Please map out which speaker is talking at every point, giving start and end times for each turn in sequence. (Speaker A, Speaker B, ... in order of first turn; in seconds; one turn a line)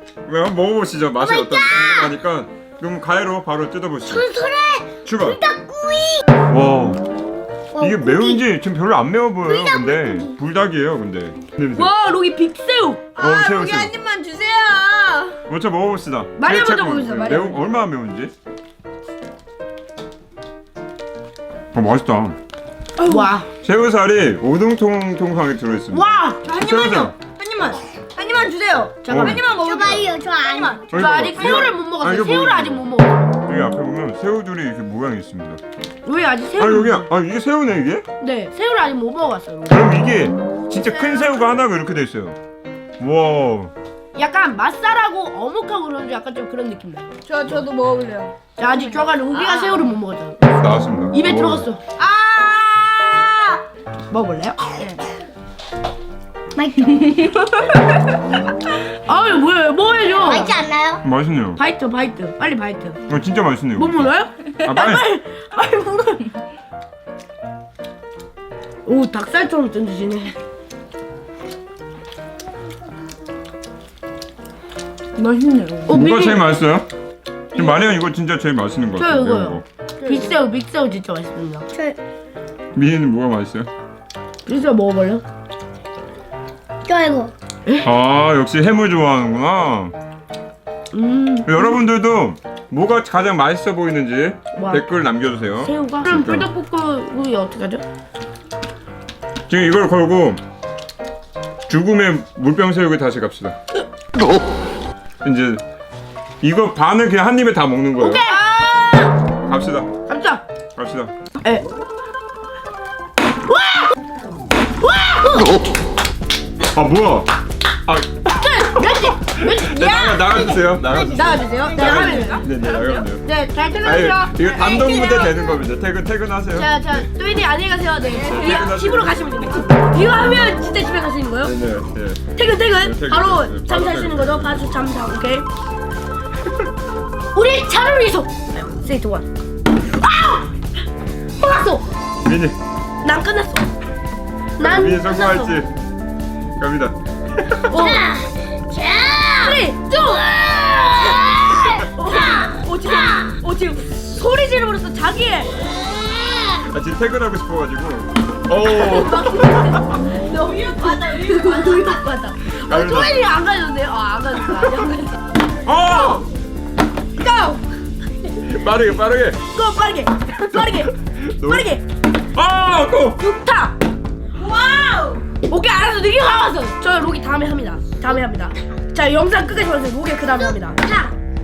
Speaker A: 0.2-4.3
Speaker B: 1.2-2.1
Speaker B: 4.1-6.3
Speaker A: 5.0-5.4
Speaker A: 6.5-7.0
Speaker B: 7.7-8.4
Speaker A: 7.8-11.9
Speaker B: 9.4-10.3
Speaker C: 11.7-13.1
Speaker A: 13.2-13.9
Speaker D: 13.2-15.4
Speaker A: 15.5-18.3
Speaker C: 16.4-17.6
Speaker A: 21.7-22.4
Speaker C: 23.0-23.5
Speaker A: 23.6-27.1
Speaker C: 25.9-26.9
Speaker D: 26.8-27.8
Speaker C: 28.2-30.0
Speaker D: 28.3-30.8
Speaker A: 29.1-29.4
Speaker B: 29.2-30.9
Speaker A: 30.9-32.9
Speaker C: 30.9-33.3
Speaker A: 33.4-35.6
Speaker C: 36.0-37.1
Speaker A: 36.6-38.1
Speaker C: 38.2-39.8
Speaker A: 39.7-42.4
Speaker A: 43.0-43.7
Speaker C: 44.1-47.2
Speaker D: 47.3-48.4
Speaker C: 48.6-50.5
Speaker A: 50.5-51.7
Speaker C: 51.1-55.0
Speaker B: 56.6-57.5
Speaker C: 58.9-60.5
Speaker B: 60.2-61.0
Speaker A: 61.0-61.6
Speaker C: 61.6-63.0
Speaker A: 63.1-65.1
Speaker C: 63.8-66.3
Speaker C: 68.8-70.4
Speaker D: 75.2-75.9
Speaker C: 75.9-76.5
Speaker A: 75.9-76.9
Speaker A: 77.5-79.7
Speaker C: 79.0-81.7
Speaker B: 80.0-80.3
Speaker A: 82.7-83.7
Speaker C: 84.5-85.2
Speaker B: 86.8-87.3
Speaker A: 87.8-90.0
Speaker C: 90.9-91.8
Speaker A: 91.5-96.5
Speaker C: 94.5-94.8
Speaker C: 95.6-97.8
Speaker A: 99.5-100.4
Speaker A: 101.7-103.6
Speaker A: 105.2-105.6
Speaker A: 106.4-108.3
Speaker C: 108.0-109.2
Speaker A: 109.5-109.9
Speaker C: 110.1-110.4
Speaker A: 110.8-111.1
Speaker C: 113.5-113.9
Speaker C: 114.8-115.6
Speaker A: 116.6-117.3
Speaker A: 117.8-123.2
Speaker C: 118.3-125.4
Speaker B: 120.6-122.0
Speaker D: 122.0-122.4
Speaker A: 123.8-127.1
Speaker C: 126.5-131.6
Speaker A: 128.0-129.9
Speaker A: 131.4-134.7
Speaker C: 132.3-135.5
Speaker C: 137.3-139.3
Speaker C: 140.0-140.5
Speaker C: 141.4-141.8
Speaker A: 142.2-142.6
Speaker C: 143.0-143.6
Speaker C: 144.6-145.6
Speaker A: 144.6-145.7
Speaker A: 146.6-147.8
Speaker C: 147.7-148.1
Speaker B: 147.7-153.3
Speaker C: 149.4-155.6
Speaker B: 155.6-156.7
Speaker A: 156.6-160.1
Speaker C: 158.7-165.2
Speaker B: 160.4-161.8
Speaker A: 162.7-163.2
Speaker A: 165.6-166.3
Speaker C: 167.2-167.6
Speaker A: 168.3-169.4
Speaker C: 169.5-170.9
Speaker A: 170.5-171.7
Speaker C: 171.4-171.8
Speaker A: 172.3-173.2
Speaker C: 173.2-173.8
Speaker B: 174.4-175.2
Speaker C: 175.3-181.0
Speaker B: 180.9-181.1